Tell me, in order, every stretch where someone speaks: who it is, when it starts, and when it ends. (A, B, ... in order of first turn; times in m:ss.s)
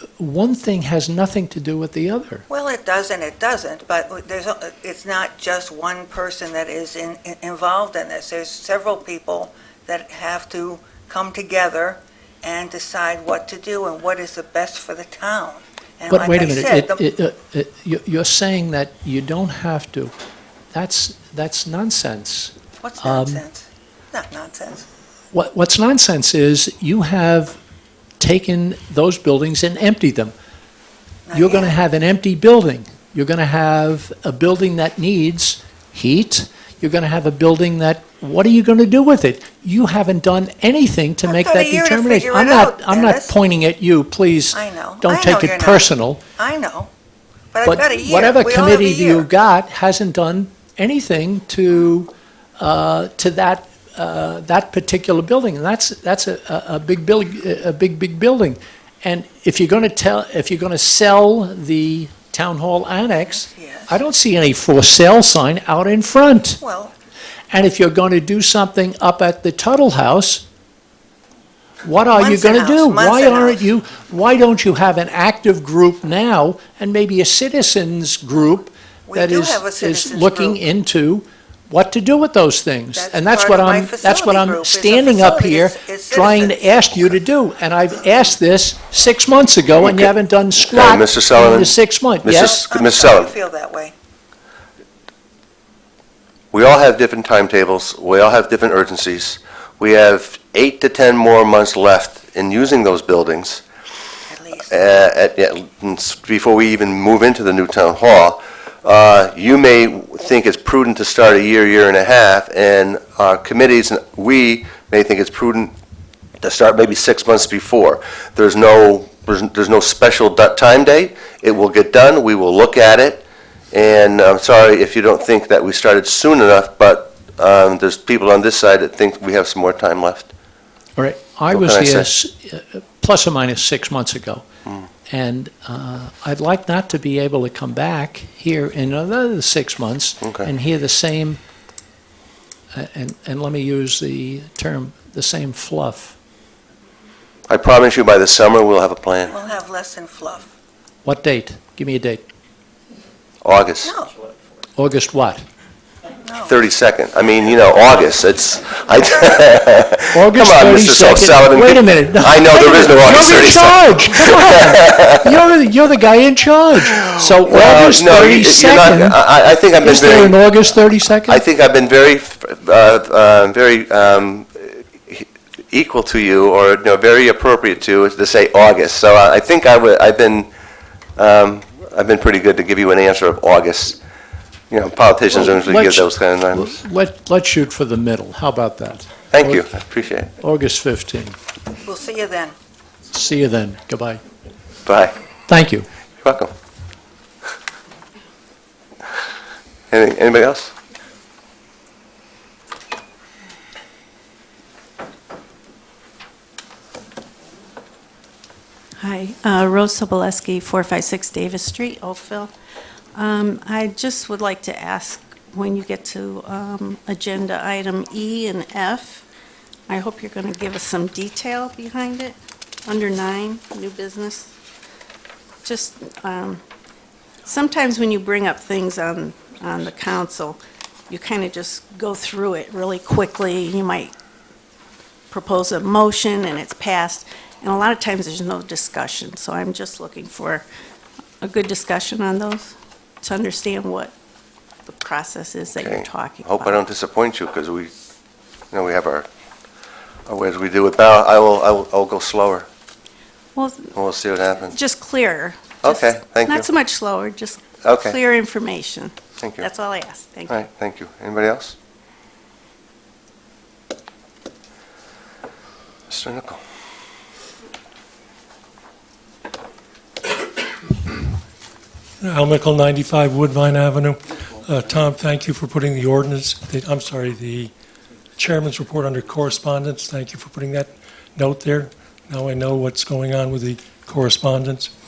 0:00.2-0:02.4 A
0:02.5-0:17.0 B
0:16.1-0:20.1 A
0:20.7-0:23.4 A
0:22.8-0:24.9 B
0:25.3-0:27.6 A
0:28.2-0:30.3 A
0:31.3-0:31.8 B
0:31.3-0:46.2 A
0:41.2-0:43.3 B
0:44.5-0:46.9 B
0:47.5-0:49.3 B
0:47.7-1:06.6 A
1:03.3-1:03.9 B
1:06.6-1:06.9 B
1:07.5-1:10.4 A
1:11.8-1:32.6 A
1:12.1-1:13.6 B
1:19.1-1:20.6 B
1:22.9-1:27.1 B
1:30.7-1:31.7 C
1:32.2-1:33.3 C
1:32.3-1:33.9 B
1:36.5-1:43.6 C
1:44.3-1:45.0 B
1:44.7-1:55.7 C
1:56.4-2:10.3 C
2:11.0-2:14.4 A
2:11.5-2:12.1 C
2:15.1-2:21.4 A
2:20.2-2:20.5 C
2:22.7-2:26.2 A
2:27.5-2:29.3 C
2:29.3-2:30.5 B
2:31.0-2:32.2 A
2:33.4-2:33.9 C
2:33.8-2:34.1 B
2:34.8-2:35.4 A
2:36.2-2:36.6 B
2:36.4-2:45.2 C
2:40.1-2:49.2 A
2:47.5-2:50.4 C
2:49.8-2:51.4 A
2:51.3-3:00.5 C
3:01.2-3:04.0 C
3:04.7-3:06.7 C
3:05.3-3:09.6 A
3:09.3-3:10.3 C
3:10.4-3:11.4 A
3:11.8-3:12.5 B
3:13.1-3:14.2 A
3:14.8-3:15.2 C
3:15.5-3:15.9 A
3:16.2-3:16.5 C
3:19.9-3:20.7 C
3:29.0-3:32.5 D
3:33.1-3:39.2 D
3:39.9-3:44.5 D
3:45.6-3:46.6 D
3:47.4-3:50.6 D
3:51.1-3:54.1 D
3:55.3-4:00.6 D
4:01.4-4:04.1 D
4:04.9-4:06.8 D
4:05.7-4:07.9 C
4:08.7-4:09.3 C
4:10.2-4:12.7 C
4:13.6-4:13.9 D
4:13.9-4:14.8 C
4:14.6-4:20.6 D
4:15.8-4:16.7 C
4:17.8-4:18.2 C
4:19.4-4:19.7 C
4:20.5-4:21.8 C
4:26.1-4:26.6 C
4:32.2-4:37.7 E
4:38.4-4:44.9 E